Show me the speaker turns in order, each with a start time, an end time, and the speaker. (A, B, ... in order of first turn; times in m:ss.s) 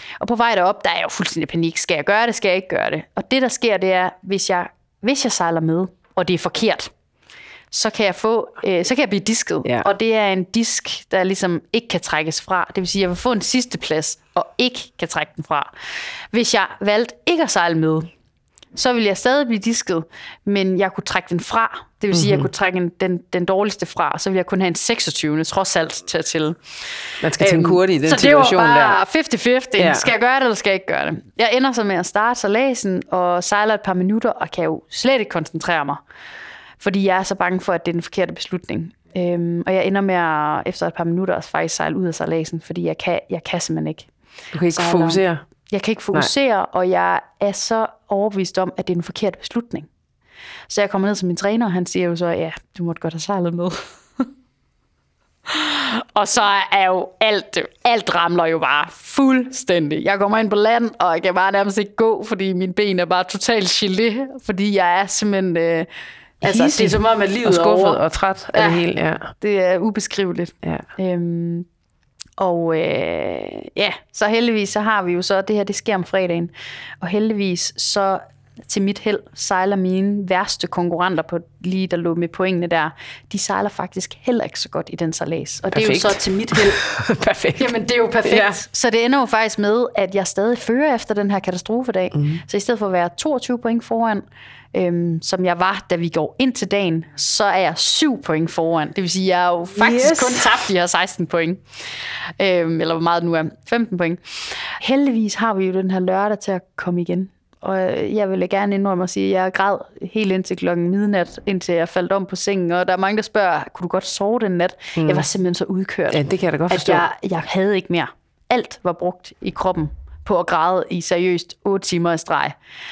0:00.2-0:06.9 A
0:07.7-0:15.7 A
0:16.3-0:18.1 A
0:18.7-0:26.6 A
0:22.1-0:22.5 B
0:27.2-0:29.0 B
0:27.4-0:36.0 A
0:29.8-0:30.1 B
0:36.8-0:44.1 A
0:44.5-0:45.4 B
0:44.7-0:49.9 A
0:50.7-0:54.2 A
0:55.5-1:05.9 A
1:06.4-1:09.3 B
1:06.4-1:08.0 A
1:08.5-1:08.8 A
1:09.3-1:11.6 A
1:12.4-1:26.8 A
1:25.7-1:27.7 B
1:27.6-1:41.6 A
1:28.2-1:28.6 B
1:32.1-1:32.4 B
1:39.8-1:40.6 B
1:42.4-2:02.5 A
1:55.0-1:55.2 B
1:56.1-1:57.0 B